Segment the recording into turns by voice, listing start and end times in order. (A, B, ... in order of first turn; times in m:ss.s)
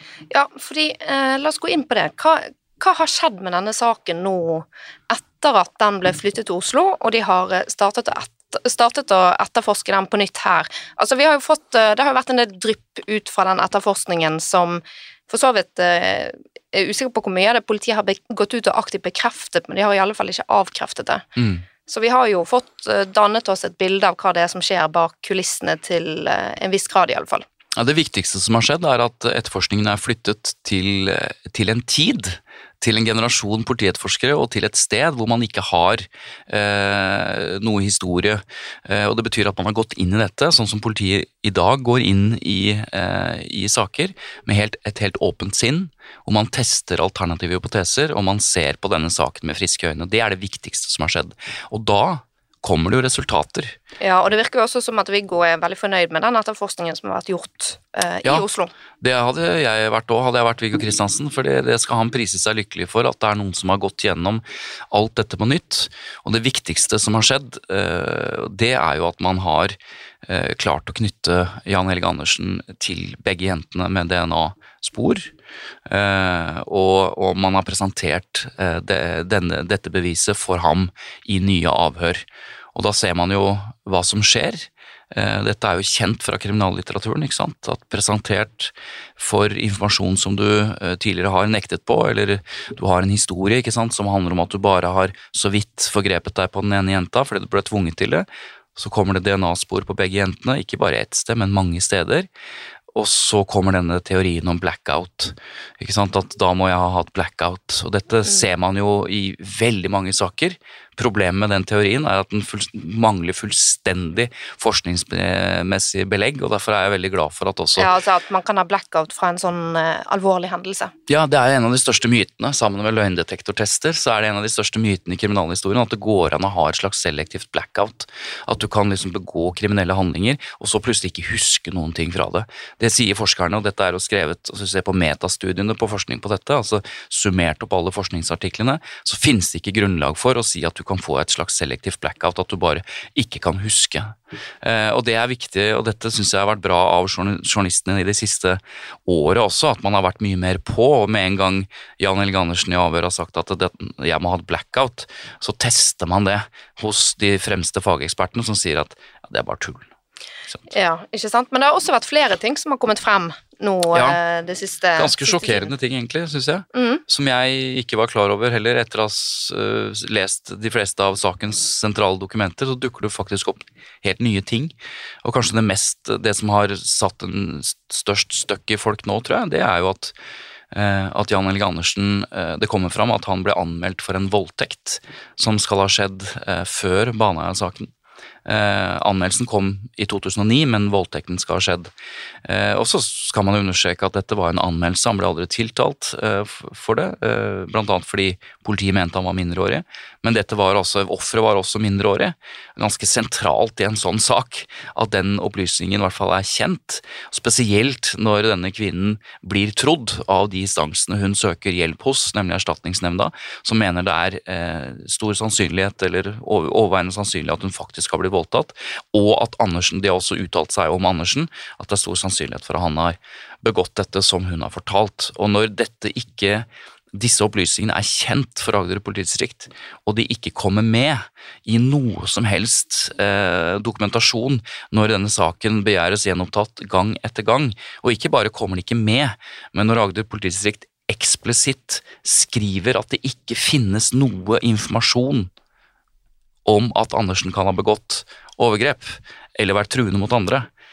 0:00.3-0:21.2 A
0:21.4-0:21.6 B
0:21.8-0:27.4 A
0:27.8-0:53.8 B
0:54.0-0:58.7 A
0:59.0-1:15.3 B
1:15.8-1:42.3 B
1:42.9-1:57.9 B
1:57.8-2:00.9 A
2:01.1-2:39.9 B
2:40.7-2:45.7 A
2:43.9-2:44.2 B
2:45.0-3:00.1 B
2:46.7-2:47.0 A
3:00.7-3:07.9 B
3:08.4-3:11.9 B
3:12.4-4:05.5 B
4:06.6-4:10.7 B